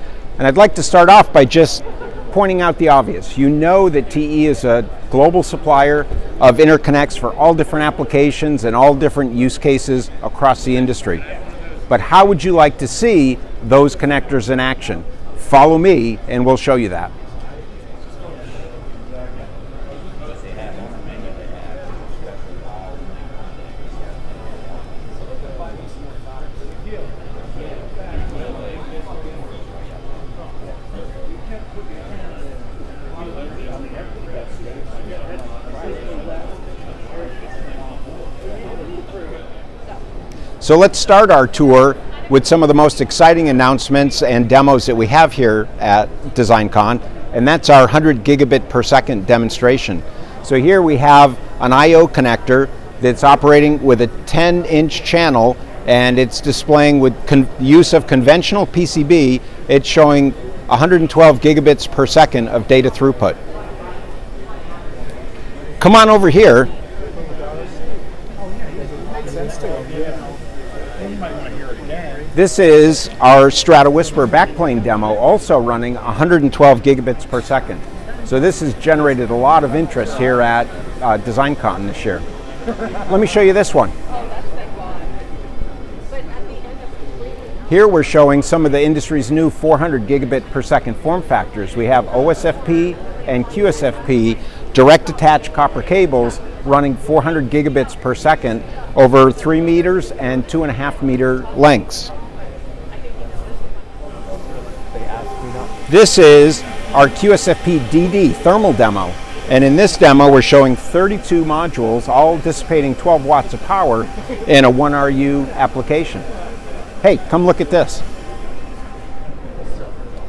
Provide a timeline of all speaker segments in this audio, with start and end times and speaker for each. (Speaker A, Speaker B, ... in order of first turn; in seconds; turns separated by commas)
Speaker A: 0.4-11.2, Speaker A: 11.9-17.1, Speaker A: 40.6-63.4, Speaker A: 65.8-66.7, Speaker A: 72.3-82.2, Speaker A: 83.1-83.9, Speaker A: 87.7-102.1, Speaker A: 105.9-116.3, Speaker A: 117.0-118.0